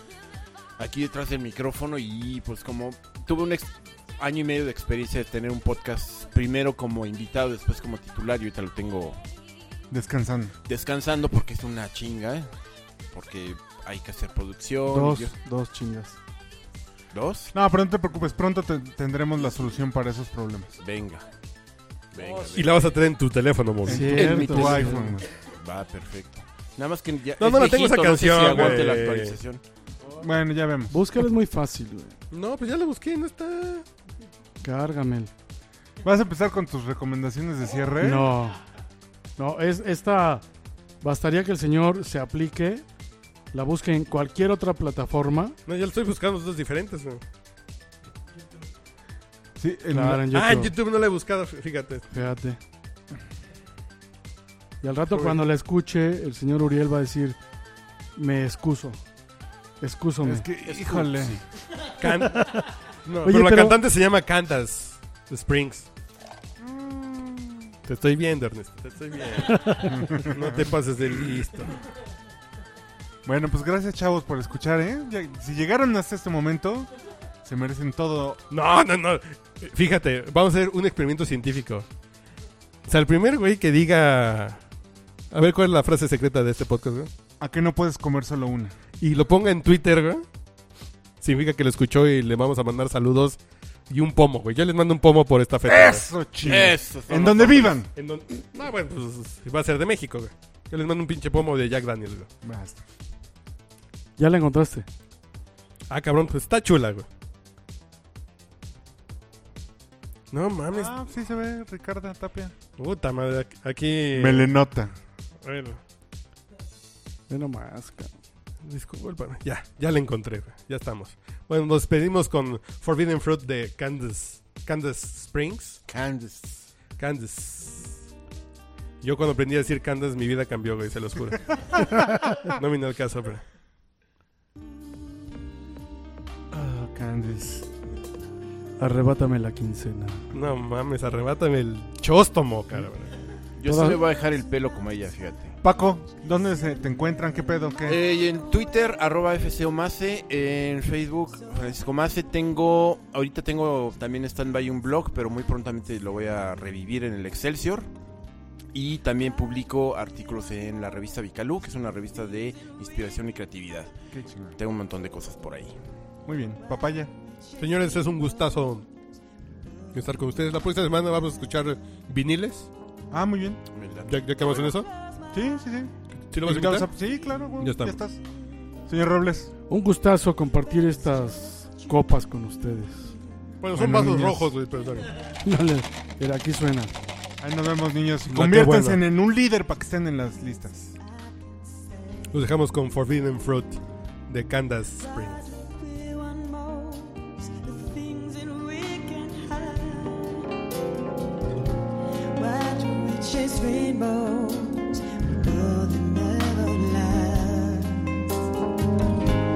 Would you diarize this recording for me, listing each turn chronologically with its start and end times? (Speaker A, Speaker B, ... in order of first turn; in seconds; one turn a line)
Speaker A: 0.8-9.2
Speaker B: 9.9-10.5
Speaker A: 10.7-12.5
Speaker A: 13.1-15.3
Speaker C: 14.9-16.2
Speaker A: 17.1-17.5
Speaker B: 17.5-20.7
Speaker A: 20.8-21.3
Speaker A: 22.1-22.8
Speaker D: 22.5-24.8
Speaker B: 23.9-25.3
Speaker C: 23.9-25.2
Speaker A: 24.2-25.0
Speaker A: 25.6-29.6
Speaker D: 27.4-29.4
Speaker B: 30.1-30.9
Speaker C: 30.9-32.2
Speaker D: 32.3-33.9
Speaker C: 34.6-35.3
Speaker B: 36.0-38.4
Speaker C: 38.0-38.6
Speaker C: 39.4-40.4
Speaker C: 41.0-42.9
Speaker C: 43.5-45.6
Speaker D: 45.7-47.2
Speaker B: 49.6-50.2
Speaker C: 49.9-50.7
Speaker D: 50.3-52.1
Speaker C: 52.1-52.6
Speaker C: 54.8-57.4
Speaker D: 55.1-55.4
Speaker C: 58.2-59.0
Speaker C: 59.8-60.5
Speaker B: 60.2-61.4
Speaker A: 60.6-61.4
Speaker D: 62.0-65.9
Speaker C: 62.0-62.7
Speaker C: 63.2-63.8
Speaker B: 66.6-67.3
Speaker D: 67.8-71.8
Speaker C: 69.4-70.1
Speaker B: 69.8-70.7
Speaker B: 73.2-76.9
Speaker B: 77.4-78.4
Speaker D: 78.5-81.9
Speaker D: 82.9-84.6
Speaker D: 85.3-87.1
Speaker B: 87.4-88.8
Speaker D: 89.0-90.2
Speaker D: 91.2-93.4
Speaker D: 93.9-96.1
Speaker B: 95.6-97.9
Speaker A: 96.4-97.8
Speaker D: 98.0-102.3
Speaker B: 102.4-102.8
Speaker C: 104.2-104.9
Speaker D: 105.9-107.1
Speaker D: 110.3-110.9
Speaker B: 110.7-112.5
Speaker D: 112.8-114.5
Speaker B: 114.1-114.9
Speaker D: 115.4-115.8
Speaker C: 117.3-118.1
Speaker D: 118.7-125.8
Speaker A: 125.9-126.7
Speaker D: 127.0-128.0
Speaker D: 129.0-133.5
Speaker B: 136.5-137.7
Speaker C: 138.8-140.2
Speaker D: 140.3-143.2
Speaker A: 143.6-145.6
Speaker C: 143.7-144.0
Speaker B: 145.6-148.0
Speaker A: 147.9-157.9
Speaker A: 158.7-163.9
Speaker B: 164.1-164.6
Speaker A: 164.6-165.8
Speaker B: 166.3-167.1
Speaker D: 167.6-168.9
Speaker D: 169.9-172.7
Speaker B: 173.1-173.6
Speaker A: 173.7-174.8
Speaker D: 174.1-174.9
Speaker B: 175.3-178.2
Speaker D: 176.3-176.9
Speaker D: 177.6-178.0
Speaker B: 178.9-179.5
Speaker C: 179.7-183.2
Speaker D: 183.6-185.1
Speaker B: 183.7-184.5
Speaker C: 185.4-186.9
Speaker B: 187.4-190.9
Speaker D: 188.3-189.1
Speaker D: 192.3-195.5
Speaker E: 195.0-200.5
Speaker E: 202.3-208.4